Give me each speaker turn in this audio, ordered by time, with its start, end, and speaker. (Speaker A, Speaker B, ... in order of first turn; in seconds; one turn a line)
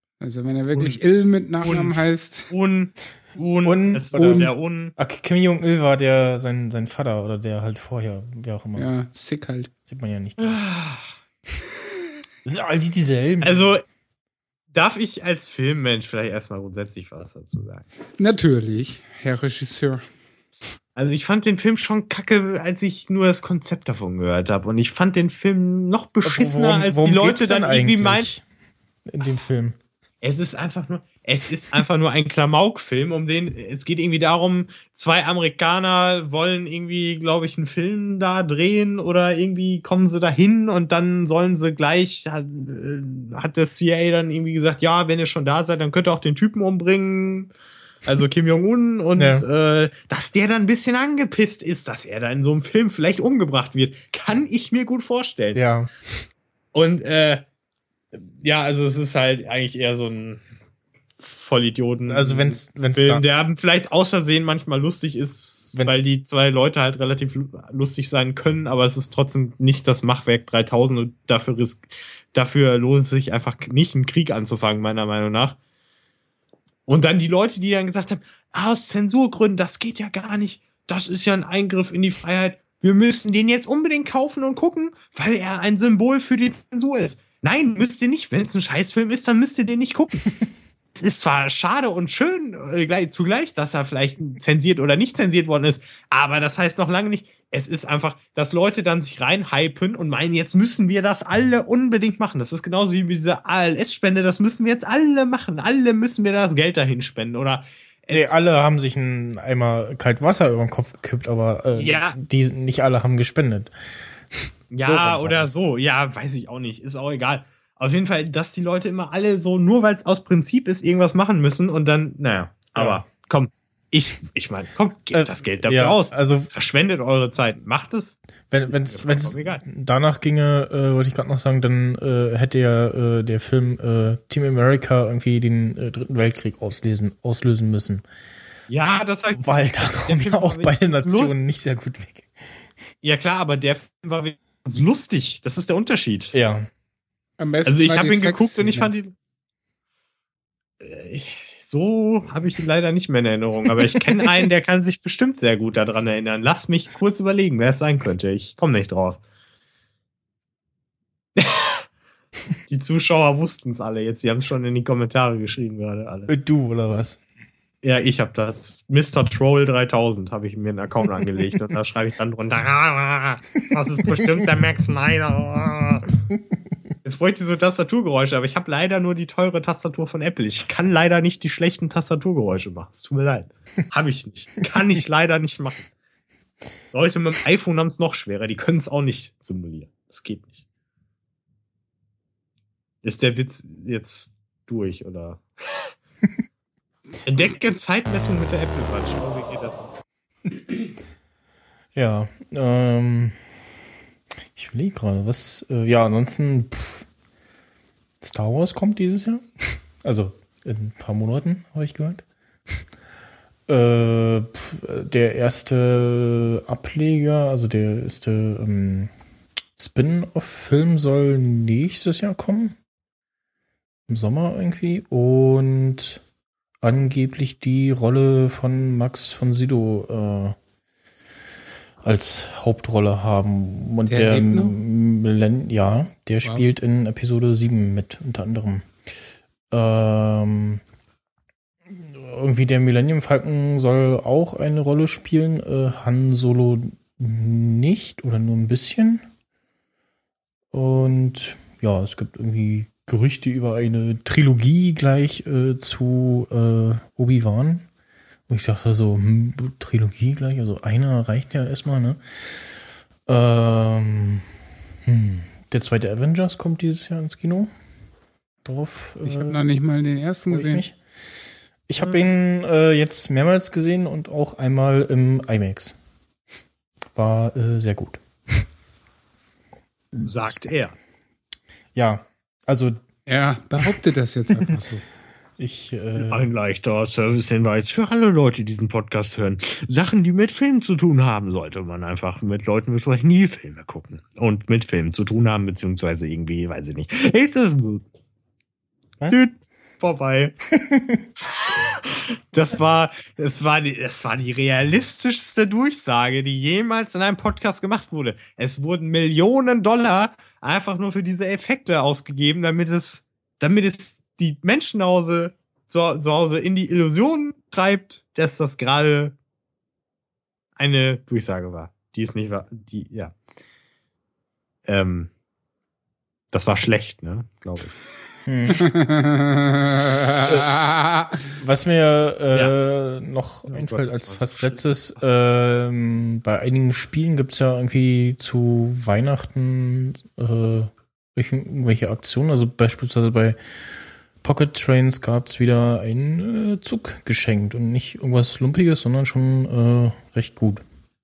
Speaker A: 0.2-2.5
Speaker B: 0.7-1.0
Speaker B: 1.6-4.9
Speaker C: 3.6-8.9
Speaker A: 8.8-9.7
Speaker C: 9.8-10.6
Speaker B: 10.4-11.1
Speaker C: 12.4-13.8
Speaker B: 13.4-13.8
Speaker B: 14.7-17.8
Speaker A: 18.2-20.0
Speaker B: 20.9-28.3
Speaker C: 26.2-28.4
Speaker C: 29.1-29.8
Speaker B: 30.2-47.5
Speaker B: 48.0-55.6
Speaker C: 49.1-49.5
Speaker C: 55.5-55.9
Speaker B: 56.7-57.4
Speaker B: 58.1-60.4
Speaker B: 61.2-75.6
Speaker C: 62.1-63.2
Speaker C: 65.7-66.0
Speaker B: 76.9-90.3
Speaker B: 90.9-108.3
Speaker C: 108.1-113.7
Speaker B: 111.8-112.2
Speaker B: 114.7-129.6
Speaker C: 114.8-115.5
Speaker C: 122.7-123.0
Speaker C: 125.1-126.5
Speaker C: 128.5-138.0
Speaker B: 138.7-141.3
Speaker C: 139.3-142.3
Speaker B: 143.0-146.3
Speaker C: 146.3-146.7
Speaker A: 147.4-148.9
Speaker B: 147.7-149.1
Speaker B: 150.8-159.2
Speaker B: 161.4-161.8
Speaker B: 162.7-166.3
Speaker C: 166.3-167.2
Speaker B: 167.8-176.1
Speaker C: 174.0-174.4
Speaker B: 177.0-185.9
Speaker B: 186.9-190.6
Speaker B: 193.0-195.9
Speaker B: 197.2-199.9
Speaker C: 201.9-203.4
Speaker C: 204.5-207.1
Speaker C: 208.2-212.2
Speaker C: 213.7-219.1
Speaker C: 219.8-222.8
Speaker C: 224.1-226.2
Speaker C: 226.8-230.6
Speaker C: 232.0-238.9
Speaker A: 234.1-234.8
Speaker C: 239.7-240.8
Speaker C: 241.9-249.3
Speaker C: 250.7-257.9
Speaker C: 258.5-262.2
Speaker C: 263.3-264.5
Speaker C: 265.0-267.7
Speaker C: 268.6-269.6
Speaker A: 269.2-270.8
Speaker C: 270.5-270.9
Speaker C: 271.9-276.0
Speaker C: 277.1-278.6
Speaker C: 280.1-280.5
Speaker B: 280.2-280.9
Speaker C: 281.9-283.0
Speaker A: 283.3-285.0
Speaker C: 285.6-286.4
Speaker B: 286.2-298.0
Speaker B: 299.3-300.5
Speaker C: 300.7-301.2
Speaker B: 301.9-319.3
Speaker B: 320.8-323.3
Speaker B: 324.9-325.3
Speaker B: 326.5-327.9
Speaker C: 328.4-328.9
Speaker A: 328.8-331.4
Speaker C: 330.4-330.7
Speaker C: 331.6-343.6
Speaker B: 333.7-334.9
Speaker C: 344.4-350.8